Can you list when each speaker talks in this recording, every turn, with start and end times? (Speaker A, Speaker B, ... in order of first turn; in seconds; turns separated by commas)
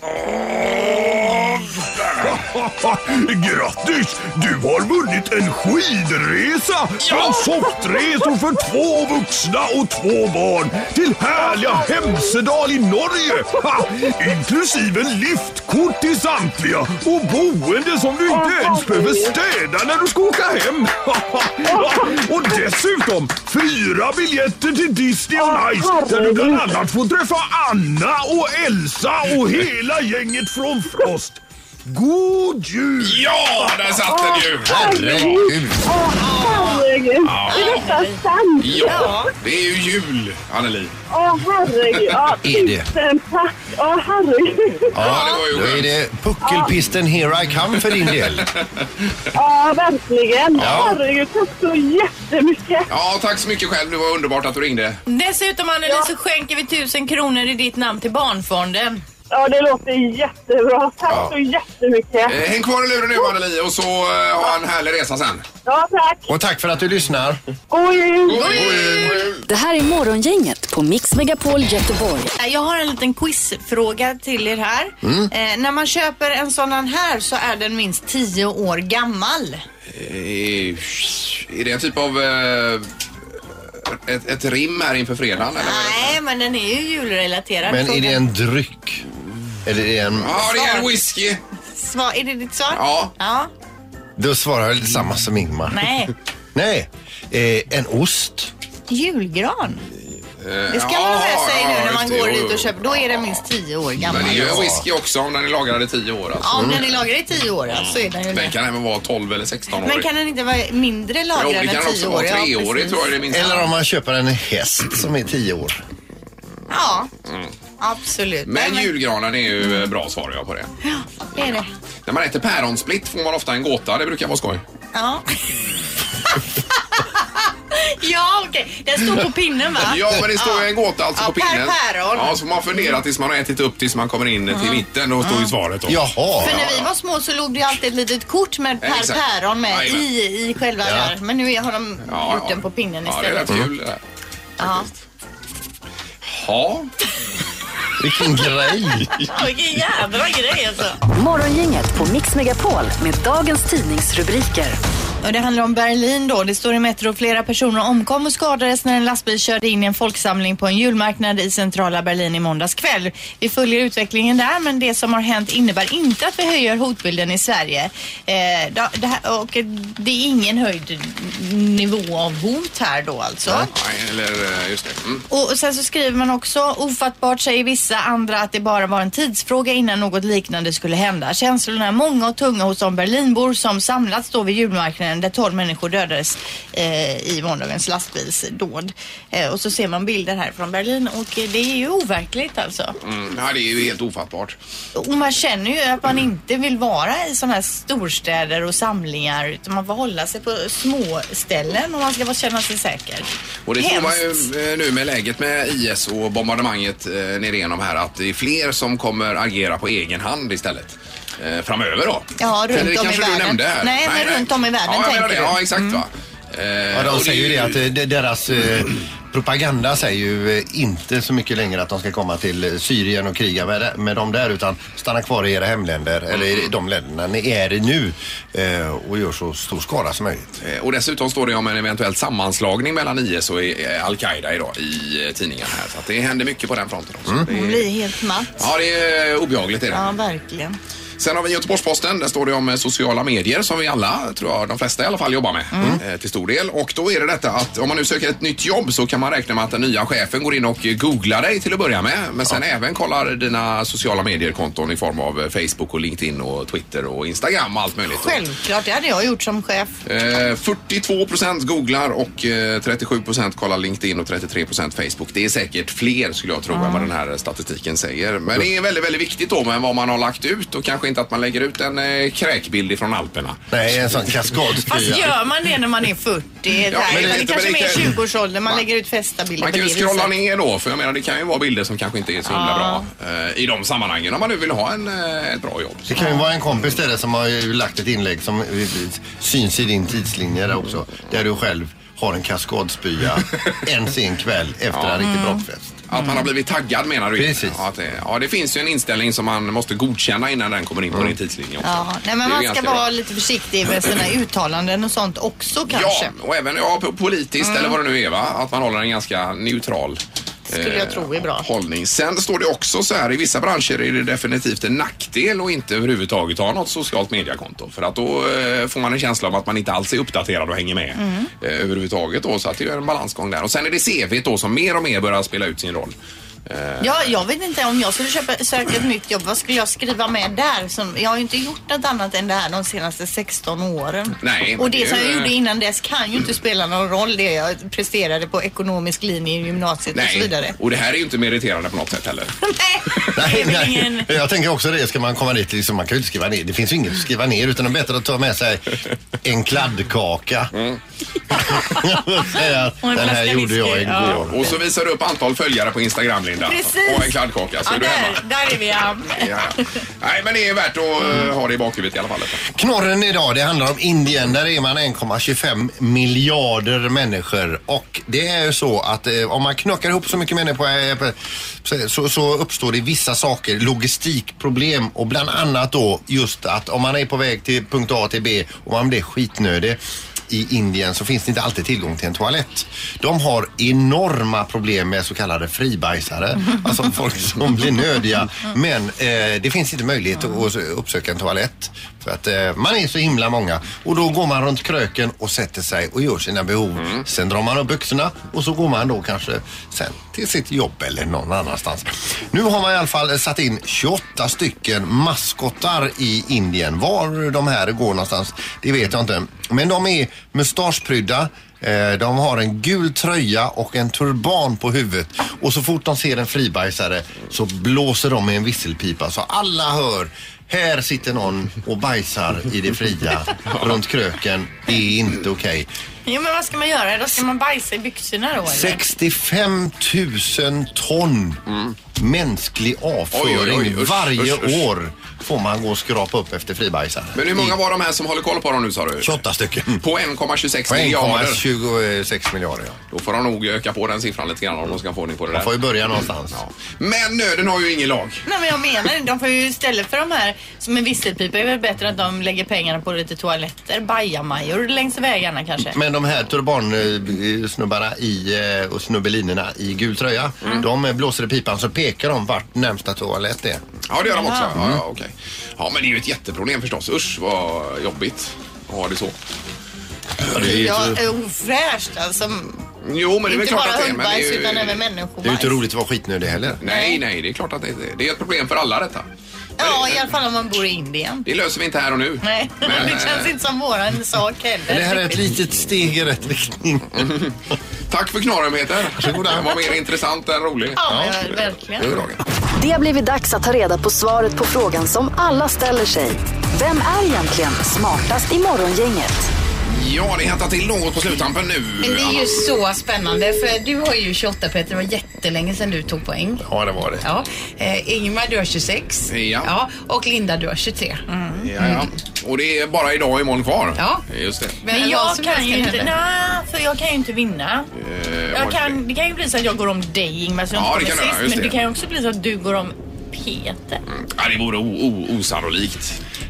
Speaker A: 0.2-2.1, Speaker B: 2.2-33.9, Speaker C: 7.2-8.2, Speaker C: 11.3-12.3, Speaker C: 18.3-19.3, Speaker C: 21.7-22.1, Speaker C: 25.3-26.8, Speaker A: 33.0-35.1, Speaker C: 34.1-39.3, Speaker D: 34.6-35.8, Speaker E: 36.2-36.9, Speaker A: 37.2-37.9, Speaker E: 37.5-38.2, Speaker A: 38.6-40.9, Speaker E: 38.8-39.3, Speaker C: 41.1-45.0, Speaker D: 42.4-42.9, Speaker D: 44.9-48.5, Speaker A: 45.0-45.9, Speaker C: 46.4-46.7, Speaker A: 47.9-48.9, Speaker C: 49.3-52.9, Speaker A: 50.5-50.9, Speaker D: 50.5-51.0, Speaker A: 52.9-55.0, Speaker E: 55.1-59.0, Speaker C: 59.3-62.4, Speaker D: 61.1-61.3, Speaker A: 62.3-65.4, Speaker C: 65.6-66.2, Speaker D: 66.3-67.4, Speaker C: 67.7-68.6, Speaker A: 68.2-69.4, Speaker E: 68.3-69.3, Speaker D: 68.6-69.2, Speaker F: 69.5-72.3, Speaker E: 72.3-79.6, Speaker D: 75.0-75.3, Speaker A: 79.9-82.9, Speaker A: 83.8-86.2, Speaker E: 85.5-88.2, Speaker D: 87.7-89.0, Speaker D: 89.6-90.4, Speaker A: 90.2-91.4, Speaker E: 90.3-91.0, Speaker E: 91.7-93.5, Speaker A: 92.7-93.1, Speaker D: 94.2-95.8, Speaker E: 95.7-96.1, Speaker D: 96.5-98.5, Speaker E: 98.9-99.8, Speaker A: 100.4-103.4, Speaker E: 100.7-104.6, Speaker A: 104.0-106.8, Speaker D: 104.0-104.8, Speaker E: 106.4-108.5, Speaker D: 106.5-106.8, Speaker A: 107.7-110.1, Speaker E: 109.7-113.1, Speaker A: 111.3-113.7, Speaker D: 113.3-115.8, Speaker E: 116.7-117.1, Speaker E: 117.8-118.9, Speaker A: 118.4-120.7, Speaker E: 120.8-121.7, Speaker A: 122.0-124.6, Speaker E: 124.9-125.7, Speaker E: 127.7-133.0, Speaker A: 129.8-136.9, Speaker E: 134.5-135.5, Speaker D: 135.9-136.6, Speaker E: 136.4-143.7, Speaker A: 138.8-140.1, Speaker D: 140.8-141.1, Speaker A: 142.1-144.0, Speaker E: 144.6-144.9, Speaker A: 146.2-146.9, Speaker D: 148.0-149.2, Speaker E: 149.2-151.0, Speaker F: 151.1-154.8, Speaker E: 155.2-173.7, Speaker A: 173.7-175.2, Speaker E: 175.3-192.9, Speaker A: 193.0-194.6, Speaker E: 194.9-204.5, Speaker A: 203.7-217.8, Speaker E: 212.4-216.0, Speaker D: 216.9-230.5, Speaker A: 226.3-226.7, Speaker A: 230.6-237.9, Speaker E: 237.5-238.7, Speaker A: 238.6-240.2, Speaker E: 239.9-240.8, Speaker A: 241.2-258.4, Speaker E: 245.7-246.0, Speaker E: 258.1-259.9, Speaker A: 260.0-273.6, Speaker E: 266.7-267.1, Speaker D: 273.7-275.3, Speaker E: 274.9-280.3, Speaker A: 276.9-278.1, Speaker D: 277.1-277.4, Speaker A: 279.6-286.1, Speaker E: 282.5-283.0, Speaker D: 286.1-296.0, Speaker E: 286.1-286.4, Speaker A: 294.9-295.2, Speaker E: 295.2-295.6, Speaker A: 296.1-303.1, Speaker E: 296.1-296.5, Speaker D: 297.4-297.8, Speaker E: 301.8-306.3, Speaker A: 305.9-326.1, Speaker E: 307.6-308.0, Speaker E: 310.7-311.7, Speaker E: 321.2-321.5, Speaker A: 326.7-327.3, Speaker E: 327.0-340.8, Speaker A: 334.4-335.5, Speaker A: 340.1-342.6, Speaker E: 342.7-344.3, Speaker D: 343.3-350.7, Speaker A: 350.7-351.0, Speaker D: 351.8-354.5, Speaker E: 352.4-354.8, Speaker A: 354.2-358.4, Speaker E: 356.6-359.8, Speaker A: 359.4-362.7, Speaker D: 362.7-425.9, Speaker A: 423.7-424.0, Speaker E: 426.2-429.0, Speaker D: 428.7-431.6, Speaker A: 431.7-431.9, Speaker D: 432.1-437.8, Speaker A: 433.3-434.9, Speaker A: 437.3-439.4, Speaker D: 439.2-440.0, Speaker A: 439.9-441.6, Speaker D: 440.9-443.0, Speaker A: 443.1-445.7, Speaker D: 445.5-446.6, Speaker A: 446.5-448.4, Speaker E: 448.4-455.9, Speaker D: 455.9-463.8, Speaker A: 464.1-469.3, Speaker E: 464.3-464.7, Speaker D: 470.5-471.2, Speaker E: 470.5-472.8, Speaker A: 473.0-475.0, Speaker E: 473.5-475.8, Speaker D: 475.4-476.8, Speaker A: 476.8-479.2, Speaker E: 476.8-477.2, Speaker E: 479.8-481.4, Speaker A: 479.8-480.2, Speaker A: 481.4-483.5, Speaker E: 482.4-485.5, Speaker D: 484.9-487.4, Speaker A: 487.2-487.5, Speaker A: 488.1-491.0, Speaker D: 489.1-489.8, Speaker E: 490.9-492.2, Speaker D: 491.0-491.4, Speaker A: 492.0-492.4, Speaker F: 492.8-499.5, Speaker A: 499.9-502.5, Speaker G: 502.0-506.6, Speaker D: 506.6-507.2, Speaker G: 507.2-511.2, Speaker A: 509.3-509.7, Speaker E: 511.3-511.7, Speaker A: 511.6-514.8, Speaker G: 511.8-512.1, Speaker G: 514.0-514.2, Speaker G: 514.8-516.1, Speaker E: 514.9-517.9, Speaker A: 518.0-519.0, Speaker E: 518.5-524.0, Speaker A: 520.7-521.8, Speaker A: 524.1-526.2